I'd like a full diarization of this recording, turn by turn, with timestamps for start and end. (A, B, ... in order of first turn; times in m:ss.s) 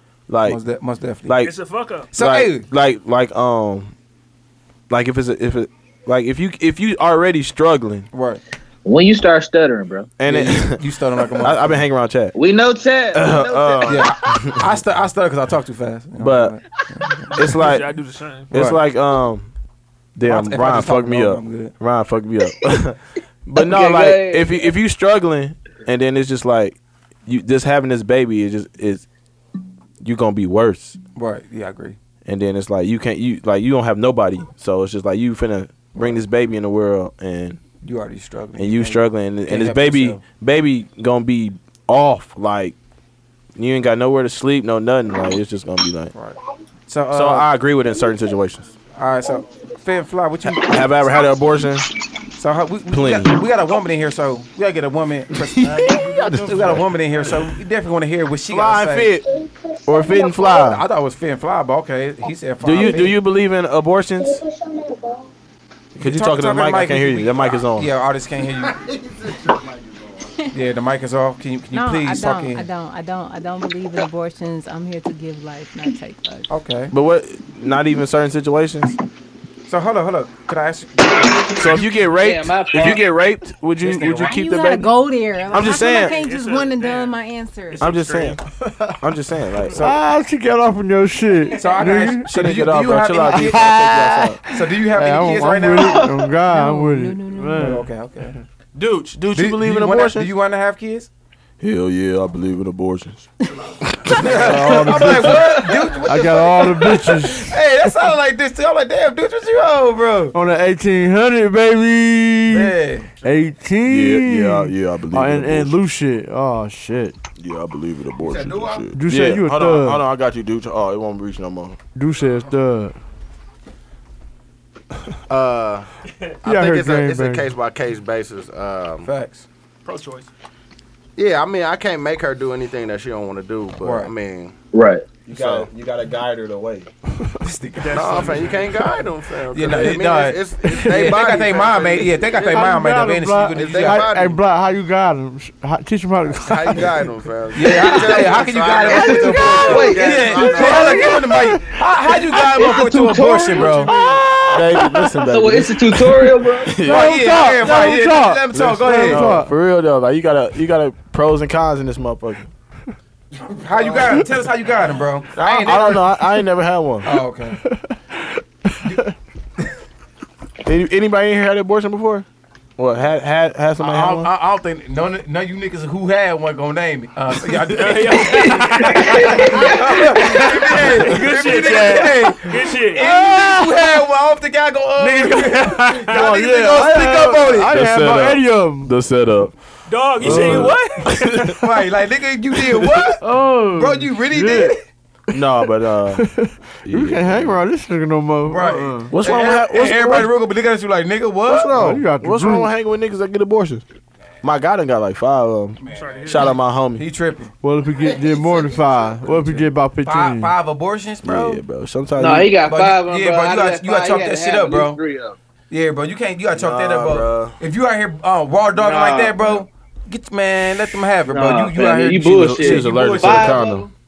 0:00.3-0:00.6 A
0:00.4-0:01.4 B
0:01.2-0:01.6 A
0:01.4-0:02.1 C
0:02.1-0:02.6 B
0:02.1-0:03.9 A
0:04.9-0:08.1 A
0:08.1-0:08.4 B
0:08.8-0:10.1 D
0:10.2-0:10.8 A
0:10.2-0:11.8 B
0:11.4-0:12.4 A
0:12.3-0:14.3 D
0:13.1-0:14.7 A
0:13.9-0:17.3 B
0:16.2-0:16.6 A
0:17.3-0:17.9 A
0:17.4-0:18.5 C
0:18.5-0:19.5 A
0:18.5-0:18.8 B
0:20.2-0:29.0 A
0:20.2-0:21.7 B
0:23.6-0:24.7 D
0:30.0-0:31.0 A
0:31.2-0:32.0 B
0:32.2-0:37.6 A
0:35.9-0:36.2 B
0:37.8-0:40.2 B
0:38.6-0:42.8 A
0:43.6-0:46.1 A
0:46.1-0:47.5 B
0:47.1-0:48.7 A
0:49.0-0:51.3 B
0:50.4-0:51.9 A
0:52.4-0:59.2 B
0:52.9-0:53.4 A
0:55.4-0:56.8 A
0:58.5-1:00.8 A
1:00.2-1:03.2 B
1:02.6-1:04.4 A
1:05.9-1:07.9 A
1:06.0-1:08.8 B
1:08.4-1:10.5 E
1:10.5-1:12.6 B
1:11.7-1:16.5 F
1:16.5-1:16.9 B
1:16.9-1:19.0 A
1:19.7-1:21.9 B
1:21.6-1:24.9 A
1:22.1-1:23.1 D
1:23.8-1:24.4 B
1:24.0-1:27.9 F
1:25.5-1:26.1 A
1:25.6-1:28.4 C
1:27.8-1:28.4 A
1:28.6-1:29.0 G
1:29.0-1:29.8 A
1:29.7-1:32.3 G
1:29.7-1:30.0 B
1:31.5-1:33.9 B
1:32.2-1:34.4 A
1:33.1-1:37.8 G
1:34.5-1:36.1 B
1:35.8-1:36.2 D
1:36.5-1:37.8 F
1:37.6-1:38.4 B
1:38.7-1:40.3 A
1:39.3-1:41.1 B
1:41.6-1:43.2 A
1:43.8-1:44.5 A
1:44.1-1:50.3 B
1:44.2-1:47.9 G
1:50.3-1:57.2 G
1:52.5-1:53.1 B
1:53.9-1:55.8 A
1:57.4-2:01.8 A
1:58.2-1:59.0 E
1:58.9-2:00.0 G
2:01.9-2:03.0 G
2:05.3-2:05.9 E
2:06.4-2:09.1 E
2:06.4-2:07.5 G
2:09.0-2:09.5 B
2:09.8-2:10.3 C
2:11.2-2:14.5 E
2:13.8-2:14.1 B
2:14.7-2:15.1 D
2:15.2-2:16.9 A
2:15.3-2:15.7 E
2:17.4-2:18.5 B
2:17.8-2:18.6 C
2:17.9-2:22.7 E
2:19.5-2:24.2 B
2:20.6-2:21.4 G
2:22.3-2:27.1 G
2:23.6-2:24.4 E
2:26.4-2:31.1 E
2:27.5-2:33.9 B
2:28.8-2:30.9 D
2:29.4-2:31.0 A
2:30.4-2:31.8 G
2:32.4-2:34.6 D
2:33.6-2:35.2 G
2:34.5-2:37.9 A
2:35.3-2:36.8 D
2:36.8-2:39.5 G
2:36.8-2:39.4 B
2:38.5-2:42.5 A
2:43.5-2:46.1 B
2:45.3-2:47.1 A
2:47.0-2:47.6 B
2:47.6-2:49.1 G
2:50.6-2:52.2 A
2:52.8-2:54.3 A
2:53.8-3:07.8 B
2:57.8-3:03.0 C
3:03.0-3:03.9 G
3:05.0-3:06.4 C
3:06.1-3:08.9 G
3:07.7-3:09.6 A
3:09.9-3:11.1 C
3:10.2-3:11.6 A
3:10.2-3:10.8 G
3:11.4-3:13.2 B
3:13.2-3:14.7 G
3:13.7-3:14.8 B
3:15.3-3:16.2 A
3:15.3-3:19.1 G
3:16.8-3:17.6 A
3:18.5-3:22.0 B
3:19.1-3:20.3 A
3:21.5-3:22.7 G
3:21.7-3:23.8 A
3:24.4-3:27.0 A
3:25.8-3:27.5 B
3:25.9-3:26.6 C
3:27.6-3:30.5 G
3:28.7-3:31.6 B
3:31.2-3:32.6 A
3:32.2-3:35.4 D
3:32.6-3:35.0 B
3:35.7-3:43.6 B
3:36.6-3:37.6 A
3:38.7-3:39.6 D
3:41.3-3:43.9 D
3:42.2-3:43.9 A